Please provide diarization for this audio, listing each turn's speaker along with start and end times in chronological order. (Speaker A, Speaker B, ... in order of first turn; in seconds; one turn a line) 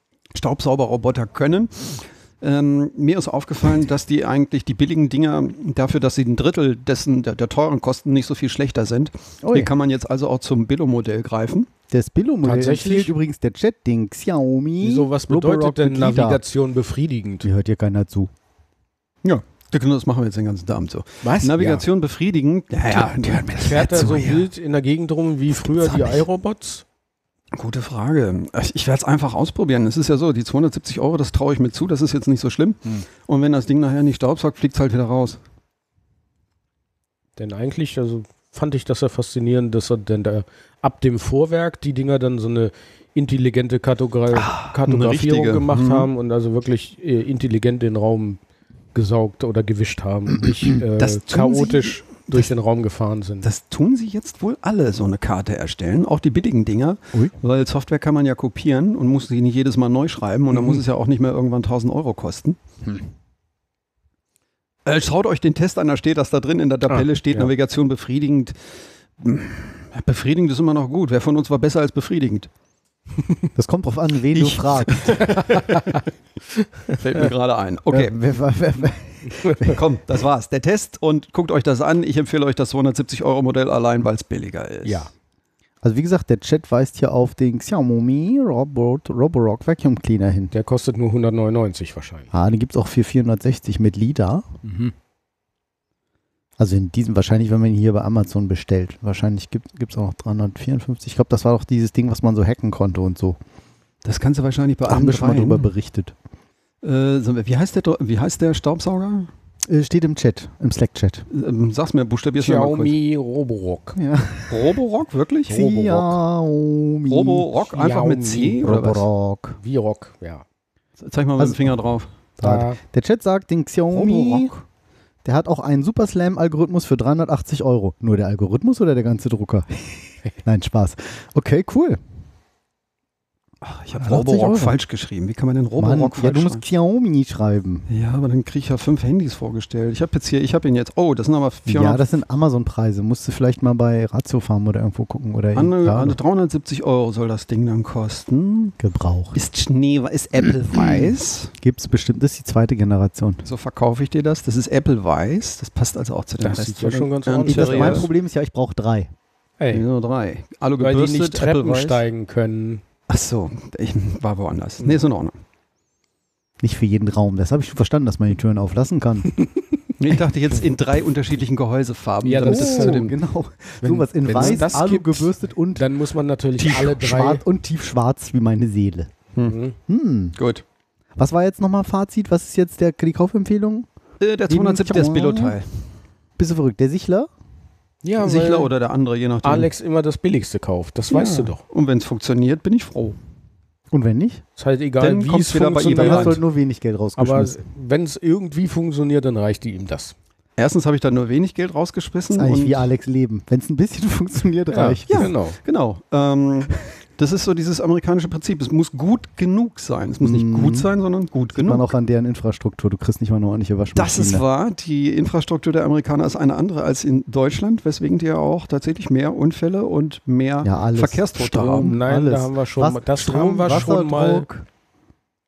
Speaker A: 0.3-11.7
Speaker B: 9.4-9.7
Speaker B: 11.9-16.4
Speaker C: 12.4-13.2
Speaker C: 14.8-17.5
Speaker B: 17.4-18.3
Speaker A: 19.2-24.5
Speaker C: 21.2-21.9
Speaker B: 23.0-24.2
Speaker C: 23.6-26.8
Speaker B: 25.8-26.2
Speaker A: 27.5-35.4
Speaker C: 37.4-48.4
Speaker A: 44.3-46.1
Speaker C: 49.0-53.5
Speaker A: 51.0-52.5
Speaker A: 53.4-62.6
Speaker A: 64.8-68.5
Speaker C: 66.9-67.5
Speaker A: 69.2-72.5
Speaker B: 73.6-75.3
Speaker A: 74.3-75.7
Speaker C: 75.2-75.8
Speaker A: 76.9-78.2
Speaker B: 77.9-79.8
Speaker A: 79.6-85.1
Speaker C: 84.8-85.1
Speaker B: 85.8-90.5
Speaker C: 90.5-92.3
Speaker B: 92.3-94.5
Speaker C: 94.6-94.9
Speaker B: 96.6-103.4
Speaker A: 104.0-105.7
Speaker B: 104.9-106.2
Speaker A: 106.8-109.3
Speaker B: 109.7-111.3
Speaker A: 111.3-113.0
Speaker C: 112.4-114.0
Speaker B: 114.0-114.8
Speaker A: 114.5-115.7
Speaker B: 115.5-117.5
Speaker C: 115.6-116.2
Speaker A: 117.1-119.1
Speaker C: 117.6-118.8
Speaker B: 118.6-119.6
Speaker C: 119.6-120.4
Speaker A: 121.0-122.1
Speaker B: 121.4-121.8
Speaker B: 122.4-124.5
Speaker C: 122.4-122.8
Speaker A: 123.9-124.6
Speaker B: 125.2-132.0
Speaker A: 133.6-136.6
Speaker B: 134.0-134.8
Speaker B: 135.8-137.9
Speaker A: 137.9-142.1
Speaker B: 141.7-146.2
Speaker A: 145.6-148.8
Speaker B: 148.8-149.4
Speaker A: 149.3-151.5
Speaker B: 151.6-153.4
Speaker A: 153.4-158.1
Speaker C: 156.4-158.1
Speaker B: 157.4-159.1
Speaker C: 159.6-159.8
Speaker A: 159.7-162.0
Speaker C: 160.8-162.8
Speaker A: 163.1-165.4
Speaker B: 166.6-169.3
Speaker A: 170.0-173.2
Speaker C: 172.2-173.1
Speaker B: 172.4-175.9
Speaker C: 173.8-177.4
Speaker A: 174.3-174.7
Speaker A: 176.6-177.0
Speaker B: 176.8-179.1
Speaker C: 179.4-179.8
Speaker B: 179.9-180.4
Speaker A: 180.4-180.6
Speaker B: 181.2-183.9
Speaker A: 184.2-185.7
Speaker B: 184.5-185.6
Speaker B: 186.4-187.3
Speaker C: 188.0-188.7
Speaker A: 188.2-189.7
Speaker C: 189.4-191.6
Speaker A: 191.1-193.2
Speaker B: 193.9-194.4
Speaker C: 194.6-196.4
Speaker A: 195.0-196.4
Speaker B: 195.9-197.6
Speaker C: 197.2-200.2
Speaker A: 200.6-202.9
Speaker B: 202.3-205.3
Speaker C: 204.7-205.6
Speaker A: 205.1-211.9
Speaker B: 210.2-210.9
Speaker B: 211.6-214.4
Speaker A: 213.9-222.0
Speaker B: 220.6-224.7
Speaker C: 221.8-224.5